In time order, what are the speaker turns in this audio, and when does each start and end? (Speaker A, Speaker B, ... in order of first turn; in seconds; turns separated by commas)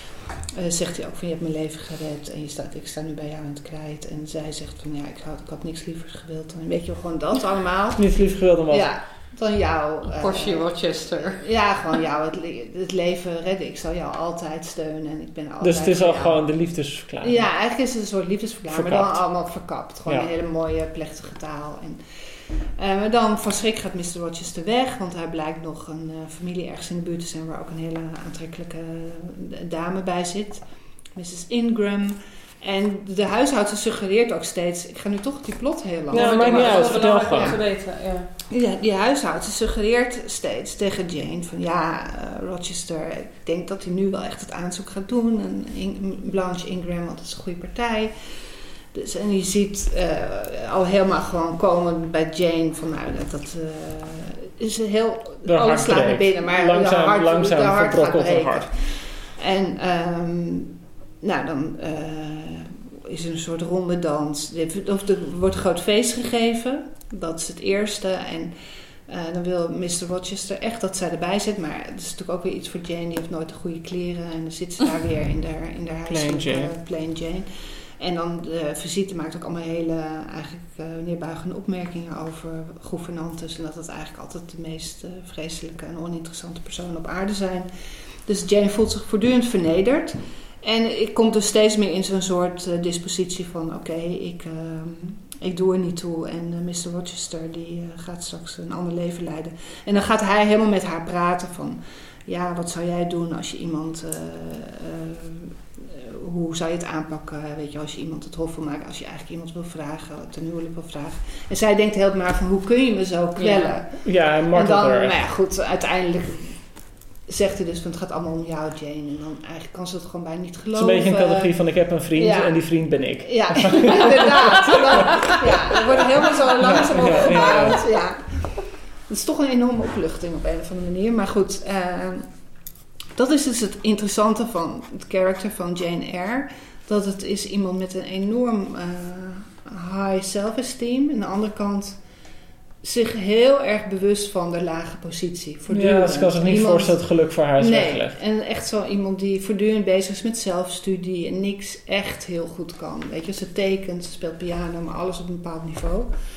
Speaker A: 0.5-8.1, Speaker B: 8.0-8.9, Speaker A: 8.7-16.4, Speaker C: 10.1-11.4, Speaker B: 15.6-17.5, Speaker A: 17.2-37.6, Speaker B: 18.7-19.2, Speaker B: 36.1-37.6, Speaker C: 36.1-38.3, Speaker A: 38.5-48.4, Speaker A: 48.9-68.5, Speaker B: 55.4-58.7, Speaker A: 69.1-87.7, Speaker B: 76.1-76.7, Speaker A: 88.2-116.6, Speaker C: 113.4-113.8, Speaker B: 114.0-115.2, Speaker A: 117.3-121.5, Speaker B: 120.7-127.8, Speaker A: 122.1-122.6, Speaker A: 123.2-128.5, Speaker A: 129.1-132.3, Speaker A: 133.1-142.0, Speaker A: 142.8-147.0, Speaker B: 145.7-148.2, Speaker A: 147.6-156.1